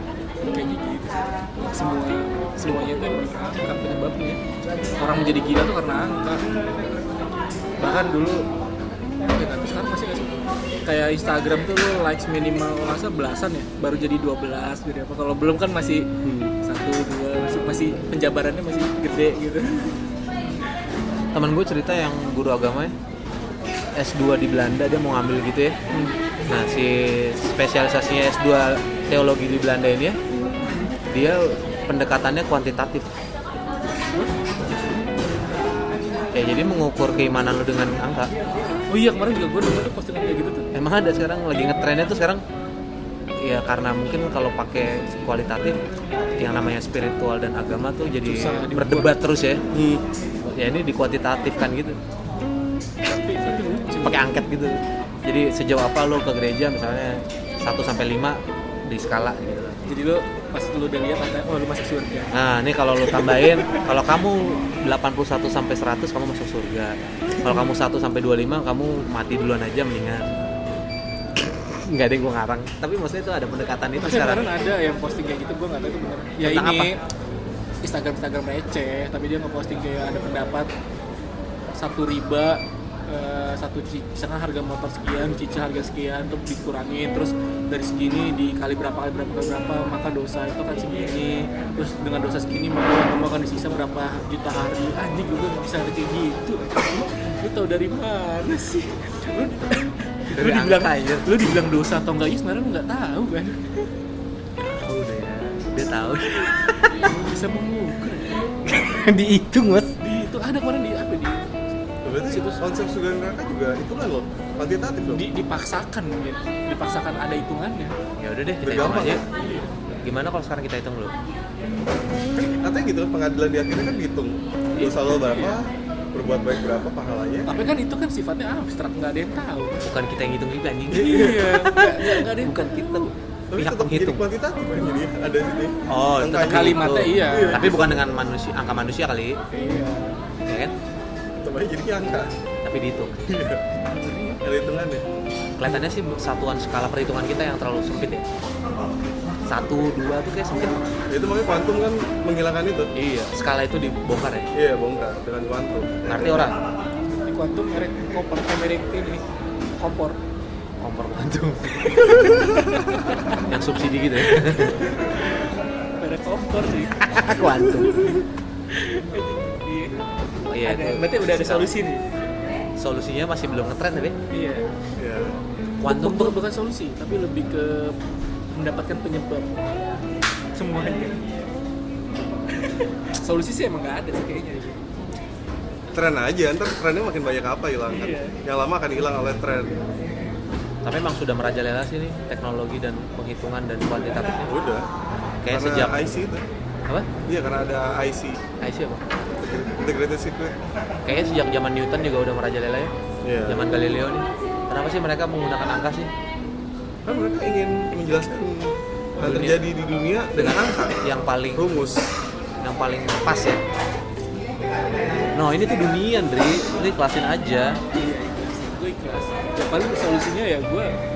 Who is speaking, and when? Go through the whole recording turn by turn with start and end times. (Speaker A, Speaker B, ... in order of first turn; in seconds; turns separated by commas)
Speaker A: 0.5-4.4, Speaker B: 2.6-2.9, Speaker A: 5.0-6.5, Speaker A: 7.8-8.4, Speaker A: 9.3-10.3, Speaker A: 10.9-16.1, Speaker C: 16.2-16.5, Speaker A: 16.6-20.6, Speaker B: 21.3-22.9, Speaker B: 24.0-25.8, Speaker A: 25.9-26.2, Speaker B: 26.5-30.2, Speaker B: 31.1-33.1, Speaker B: 36.3-38.3, Speaker A: 38.9-40.7, Speaker B: 40.7-42.4, Speaker B: 43.4-45.8, Speaker B: 46.4-49.6, Speaker A: 48.2-49.1, Speaker C: 49.7-50.0, Speaker B: 50.4-52.0, Speaker A: 53.0-54.2, Speaker B: 54.0-59.8, Speaker A: 59.9-62.3, Speaker B: 62.3-70.4, Speaker A: 63.1-63.9, Speaker A: 67.4-67.7, Speaker B: 71.7-74.5, Speaker A: 74.0-77.0, Speaker B: 76.4-76.9, Speaker A: 77.8-80.7, Speaker A: 81.8-103.9, Speaker B: 100.3-101.3, Speaker B: 104.6-107.1, Speaker A: 106.3-108.6, Speaker B: 108.7-109.9, Speaker A: 110.0-111.8, Speaker C: 112.0-115.2, Speaker A: 115.1-117.9, Speaker B: 118.2-119.3, Speaker C: 118.6-119.2, Speaker A: 119.3-119.7, Speaker B: 120.0-121.2, Speaker C: 122.4-127.5, Speaker A: 124.8-125.6, Speaker A: 127.5-129.8, Speaker B: 129.8-134.2, Speaker A: 130.9-133.1, Speaker C: 133.5-138.0, Speaker B: 135.9-139.4, Speaker A: 136.4-137.8, Speaker A: 139.5-140.1, Speaker B: 140.5-140.7, Speaker C: 141.3-142.3, Speaker B: 142.6-143.3, Speaker C: 143.3-143.6, Speaker A: 143.9-144.4, Speaker C: 144.4-145.1, Speaker B: 145.6-148.2, Speaker B: 149.5-150.8, Speaker C: 151.1-152.9, Speaker B: 152.9-154.5, Speaker C: 154.5-156.5, Speaker B: 156.1-156.6, Speaker A: 157.1-159.2, Speaker A: 159.8-160.2, Speaker B: 160.8-162.5, Speaker A: 161.8-163.4, Speaker B: 163.4-164.8, Speaker A: 164.2-165.5, Speaker A: 166.0-170.0, Speaker B: 167.0-168.1, Speaker B: 170.5-171.7, Speaker A: 170.6-172.0, Speaker B: 172.8-174.2, Speaker A: 174.3-174.7, Speaker C: 175.0-175.3, Speaker B: 175.8-176.4, Speaker A: 175.9-178.0, Speaker A: 178.5-179.6, Speaker A: 180.6-181.2, Speaker A: 182.5-184.8, Speaker C: 185.9-189.8, Speaker A: 187.9-188.4, Speaker B: 190.8-194.5, Speaker C: 194.5-194.8, Speaker B: 195.4-196.3, Speaker C: 195.5-196.4, Speaker C: 197.3-198.4, Speaker B: 198.6-199.0, Speaker C: 199.4-200.6, Speaker B: 201.1-202.9, Speaker C: 203.2-203.7, Speaker B: 203.5-206.1, Speaker C: 207.1-210.9, Speaker B: 209.2-209.6, Speaker B: 210.4-211.7, Speaker C: 211.6-212.0, Speaker B: 212.6-213.6, Speaker B: 215.3-217.8, Speaker A: 217.9-221.0